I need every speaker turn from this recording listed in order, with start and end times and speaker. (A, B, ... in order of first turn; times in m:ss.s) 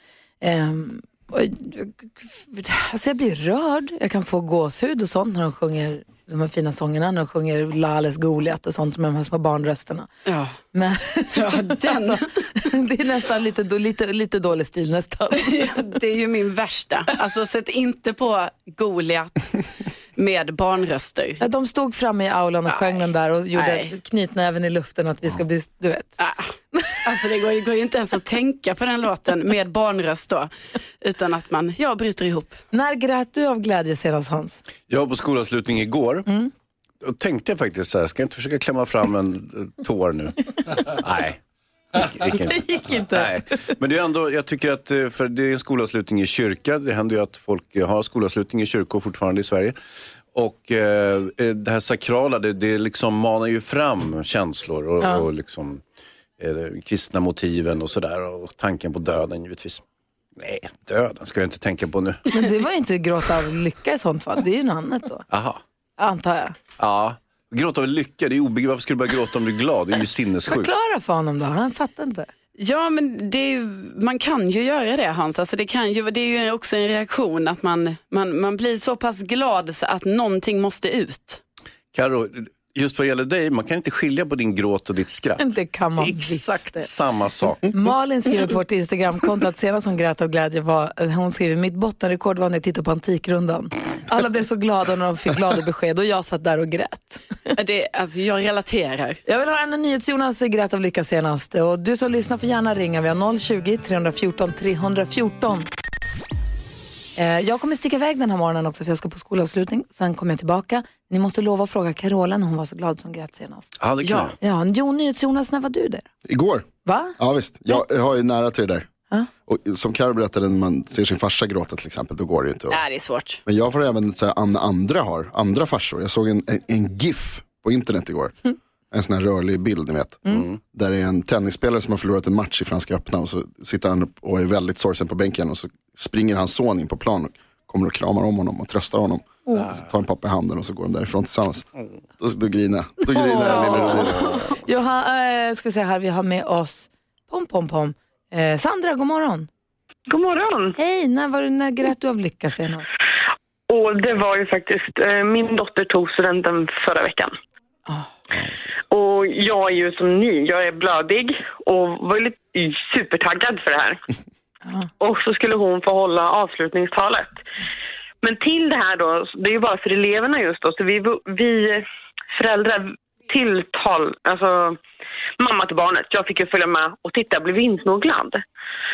0:00.4-0:10.1 A
0:10.2-0:10.6 B
0:10.7-0:15.8 A
0:11.3-0:12.4 B
0:15.4-0:21.4 B
0:21.4-0:26.2 A
0:22.7-0:22.9 B
0:23.5-0:23.9 B
0:26.2-0:26.5 B
0:27.0-0:32.6 B
0:32.7-0:34.6 A
0:34.9-0:36.3 C
0:37.0-0:41.4 C
0:42.0-0:49.8 C
0:42.3-0:43.7 A
0:50.3-0:55.8 C
0:55.0-0:55.2 A
0:56.4-0:59.8 C
1:00.4-1:02.2 C
1:02.3-1:05.2 A
1:05.3-1:05.6 C
1:06.0-1:06.6 A
1:06.8-1:10.7 C
1:10.5-1:12.3 A
1:12.6-1:21.4 B
1:21.9-1:25.4 C
1:25.4-1:26.9 A
1:26.0-1:27.7 C
1:27.7-1:37.5 A
1:37.6-1:39.2 B
1:39.2-1:45.7 A
1:47.2-1:53.7 A
1:53.8-1:54.3 C
1:54.0-1:54.3 B
1:54.4-1:56.0 A
1:56.2-1:56.7 D
1:56.8-1:57.2 A
1:57.2-1:58.9 D
1:59.5-2:02.8 D
2:02.7-2:03.4 B
2:03.5-2:08.4 D
2:08.9-2:24.4 D
2:10.3-2:10.6 C
2:23.1-2:24.1 A
2:23.3-2:24.6 B
2:24.6-2:29.5 A
2:30.1-2:30.8 E
2:30.8-2:32.9 A
2:33.7-2:37.4 E
2:38.9-2:44.0 E
2:44.6-2:44.9 A
2:45.0-2:47.4 E
2:48.2-2:54.8 E
2:55.4-2:58.4 E